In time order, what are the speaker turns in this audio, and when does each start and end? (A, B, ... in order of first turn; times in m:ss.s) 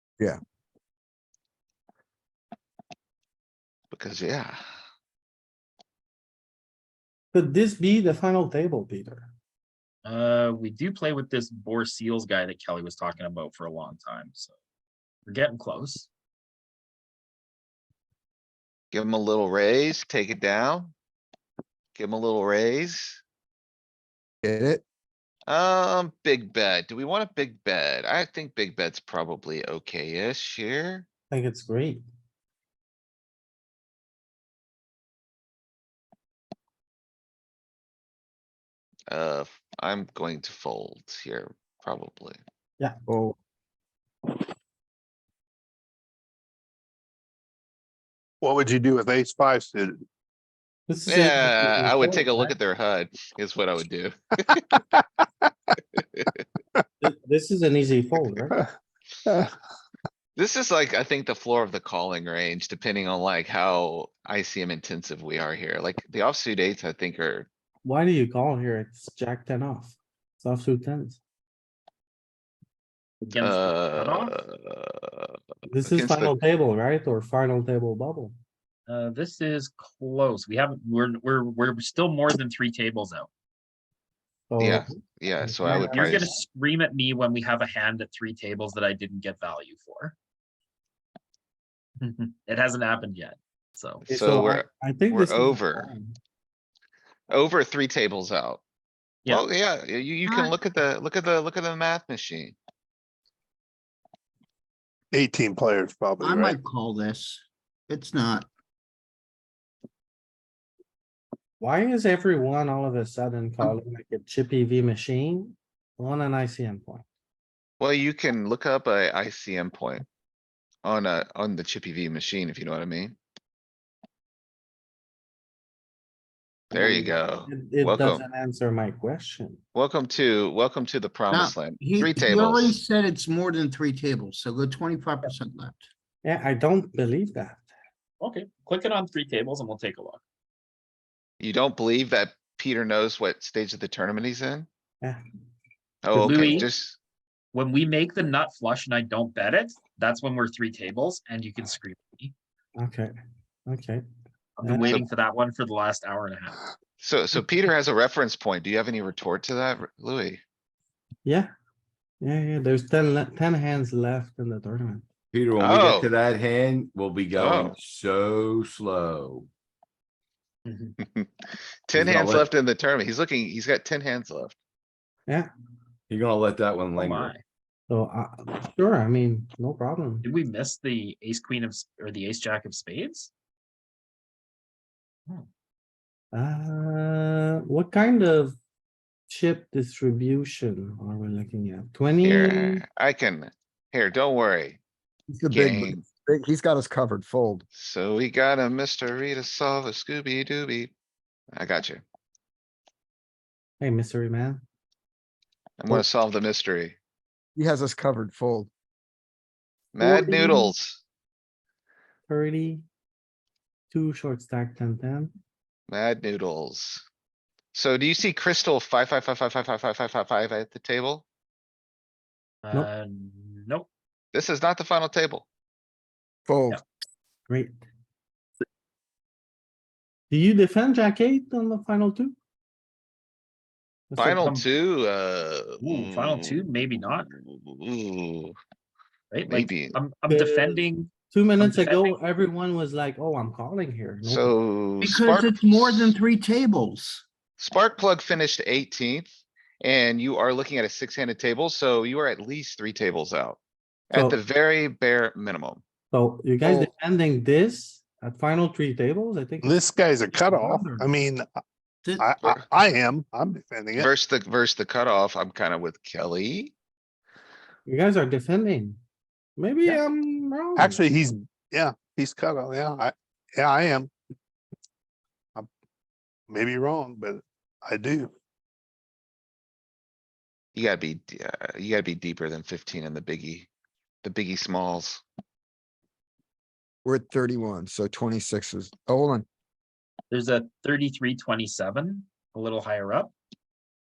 0:03.9-0:04.6 A
0:07.3-0:09.3 B
0:10.0-0:14.5 C
0:15.3-0:16.1 C
0:18.9-0:20.9 A
0:22.0-0:23.2 A
0:24.4-0:24.8 D
0:25.5-0:31.1 A
0:31.3-0:32.0 B
0:39.1-0:42.4 A
0:43.1-0:43.4 D
0:48.4-0:50.0 E
0:50.9-0:52.6 B
0:51.1-0:54.1 A
0:57.0-0:58.6 B
0:59.3-0:59.5 E
1:00.4-1:07.5 A
1:07.8-1:11.2 B
1:13.2-1:14.4 C
1:13.4-1:15.3 A
1:15.7-1:18.4 B
1:15.9-1:16.3 A
1:18.9-1:23.3 C
1:24.5-1:26.4 B
1:24.6-1:26.3 A
1:25.7-1:30.1 C
1:32.0-1:34.1 C
1:34.1-1:36.2 B
1:34.1-1:35.9 A
1:37.3-1:38.6 A
1:39.3-1:42.6 A
1:40.2-1:40.6 F
1:45.1-1:46.6 E
1:46.2-1:48.5 F
1:51.6-1:57.0 B
1:57.8-2:00.0 A
2:00.8-2:03.2 A
2:06.7-2:08.2 A
2:06.7-2:09.6 B
2:09.8-2:12.8 A
2:11.3-2:15.8 F
2:16.2-2:17.7 B
2:18.2-2:20.2 C
2:21.4-2:24.7 A
2:26.0-2:27.0 A
2:26.1-2:26.7 B
2:26.2-2:26.7 C
2:27.5-2:32.3 C
2:32.8-2:33.1 B
2:33.7-2:34.0 B
2:34.6-2:36.6 C
2:34.6-2:35.1 B
2:37.0-2:40.4 A
2:41.2-2:41.5 B
2:42.2-2:45.0 B
2:45.3-2:49.5 G
2:45.6-2:46.1 A
2:47.4-2:47.7 A
2:50.7-2:51.0 C
2:51.9-2:54.5 A
2:51.9-2:52.5 G
2:56.1-2:57.3 G
2:57.0-2:57.4 C
2:57.9-3:00.3 B
3:00.2-3:03.3 C
3:06.3-3:08.6 B
3:09.3-3:12.8 B
3:12.2-3:14.8 A
3:15.3-3:17.6 D
3:15.5-3:16.0 A
3:17.8-3:20.9 A
3:21.6-3:22.0 A
3:23.8-3:24.6 B
3:25.8-3:27.0 A
3:27.6-3:28.7 D
3:30.0-3:31.0 A
3:30.0-3:30.7 B
3:32.3-3:32.8 B
3:33.9-3:35.3 B
3:35.9-3:37.0 A
3:37.7-3:41.2 A
3:42.6-3:43.9 C
3:44.3-3:45.4 A
3:46.5-3:46.8 D
3:47.5-3:47.8 B
3:50.3-3:52.4 B
3:54.1-3:54.4 B
3:54.2-3:56.1 A
3:54.2-3:54.7 C
3:55.8-3:57.3 C
3:55.8-3:56.3 F
3:57.5-3:58.5 A
3:59.3-4:02.1 C
3:59.5-4:00.0 A
4:00.3-4:04.5 B
4:04.3-4:06.2 A
4:05.0-4:07.2 F
4:07.6-4:09.3 A
4:09.8-4:13.6 A
4:14.1-4:15.8 A
4:14.1-4:14.4 B
4:16.1-4:19.8 B
4:19.6-4:21.5 E
4:20.5-4:21.0 B
4:22.2-4:24.1 E
4:24.0-4:26.7 A
4:27.9-4:29.0 B
4:29.6-4:31.0 B
4:30.8-4:34.1 E
4:36.5-4:38.3 E
4:40.8-4:43.7 A
4:44.2-4:45.2 A
4:47.0-4:49.5 D
4:50.3-4:53.3 C